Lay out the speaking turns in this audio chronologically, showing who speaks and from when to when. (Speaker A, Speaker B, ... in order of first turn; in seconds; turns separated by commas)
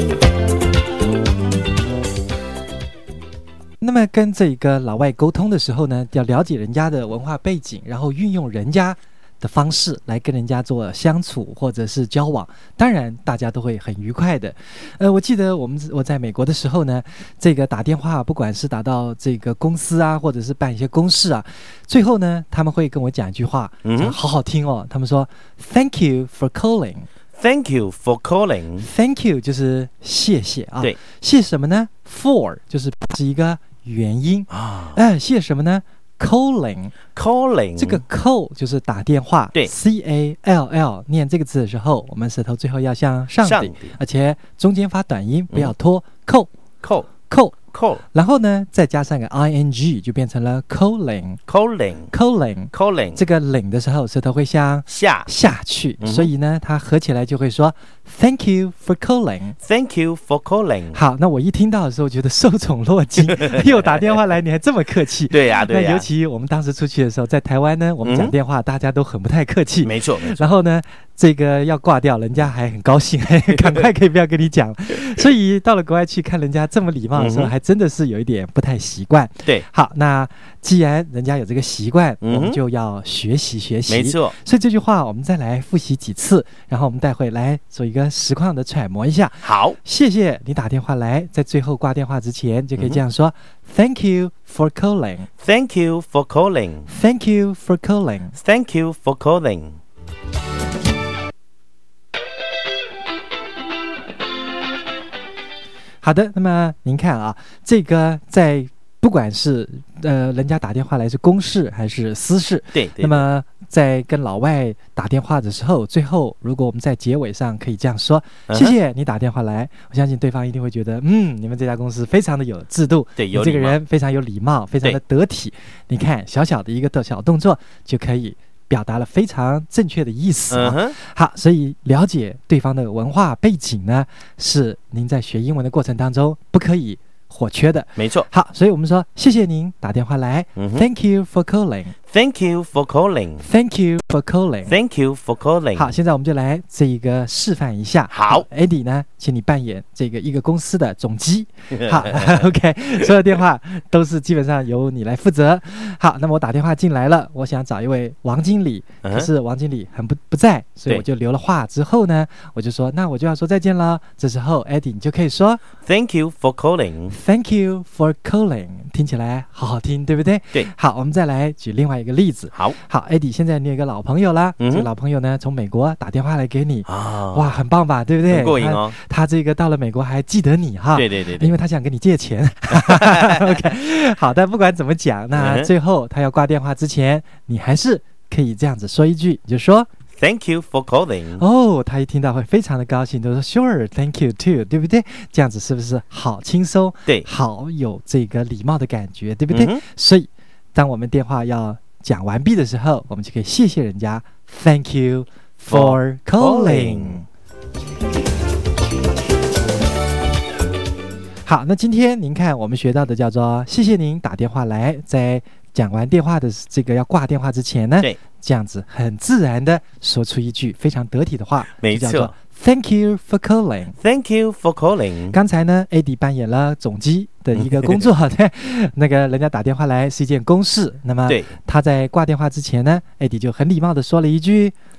Speaker A: 3.8-27.1, Speaker B: 23.8-24.2, Speaker B: 27.4-28.9, Speaker A: 28.8-37.0, Speaker B: 34.5-35.0, Speaker B: 37.1-38.0, Speaker A: 37.8-46.5, Speaker B: 43.4-43.9, Speaker B: 46.8-47.1, Speaker A: 47.3-51.4, Speaker B: 47.7-48.0, Speaker B: 51.5-52.1, Speaker A: 52.1-59.6, Speaker B: 52.7-53.2, Speaker B: 54.9-55.3, Speaker B: 56.0-56.3, Speaker B: 59.6-61.0, Speaker A: 60.9-95.3, Speaker B: 63.4-64.1, Speaker B: 65.3-66.1, Speaker B: 68.0-68.3, Speaker B: 69.8-70.5, Speaker B: 77.2-77.5, Speaker B: 82.2-82.6, Speaker B: 83.9-84.3, Speaker B: 89.4-89.8, Speaker B: 92.8-93.0, Speaker B: 95.4-96.9, Speaker A: 96.9-98.4, Speaker B: 98.3-99.8, Speaker A: 106.0-141.9, Speaker B: 112.7-113.3, Speaker B: 118.5-118.8, Speaker B: 123.2-123.8, Speaker B: 130.5-131.0, Speaker B: 138.0-138.3, Speaker B: 140.6-140.8, Speaker B: 142.1-143.5, Speaker A: 143.4-144.8, Speaker B: 144.7-145.9, Speaker A: 145.8-165.6, Speaker B: 148.1-148.5, Speaker B: 151.7-152.4, Speaker B: 159.0-159.3, Speaker B: 165.8-167.2, Speaker A: 167.1-189.9, Speaker B: 174.6-174.9, Speaker B: 176.9-177.6, Speaker B: 178.3-178.9, Speaker B: 180.9-181.5, Speaker B: 182.7-183.6, Speaker B: 185.3-185.7, Speaker B: 190.2-191.4, Speaker A: 191.4-207.3, Speaker B: 199.5-199.8, Speaker B: 205.7-207.2, Speaker A: 211.4-224.0, Speaker B: 221.8-222.3, Speaker B: 224.0-225.4, Speaker A: 225.3-234.7, Speaker B: 227.6-228.1, Speaker B: 231.3-231.6